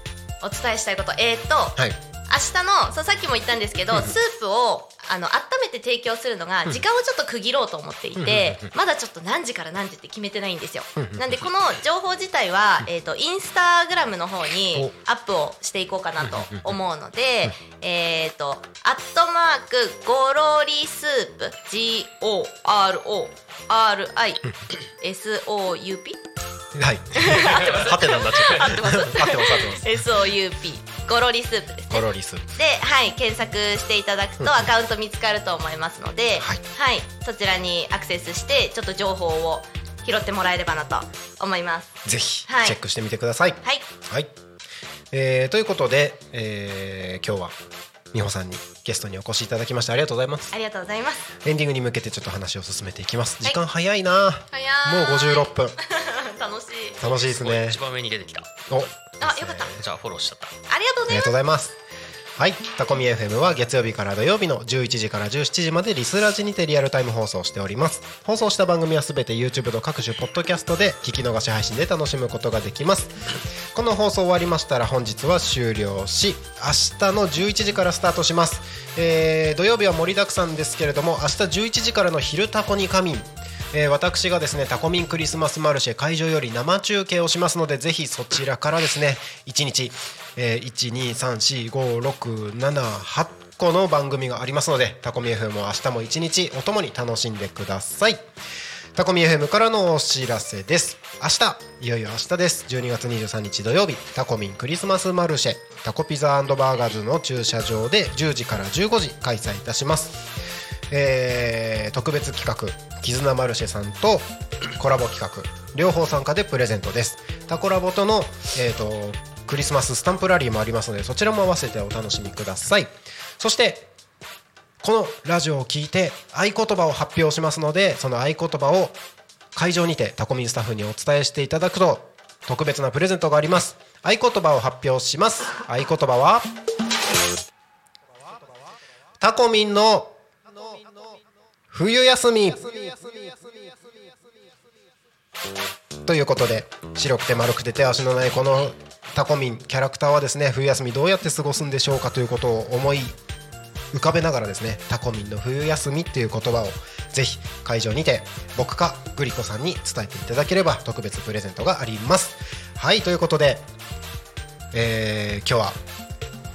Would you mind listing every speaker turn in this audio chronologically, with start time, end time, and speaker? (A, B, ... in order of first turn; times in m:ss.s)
0:00.4-0:24.5 A
0:08.2-0:08.7 B
0:11.0-0:11.4 B
0:16.2-0:16.7 B
0:25.0-0:26.2 A
0:26.7-0:30.0 B
0:27.1-0:41.9 A
0:31.9-0:32.4 B
0:34.4-0:34.7 B
0:42.0-0:44.3 B
0:42.4-0:42.8 A
0:45.1-0:47.6 B
0:48.1-0:50.5 B
0:50.5-0:51.3 A
0:51.4-0:55.8 B
0:54.5-0:57.0 A
0:57.0-1:00.5 C
0:57.0-0:57.8 B
0:58.7-0:59.8 B
0:59.2-0:59.7 A
1:00.7-1:01.3 A
1:01.1-1:01.8 B
1:02.4-1:38.2 B
1:38.9-1:50.3 B
1:50.9-2:03.9 B
2:04.8-2:09.0 B
2:09.5-2:16.5 B
2:19.2-2:21.2 B
2:21.7-2:23.9 B
2:26.0-2:33.2 B
2:33.9-2:43.6 B
2:44.7-2:45.8 B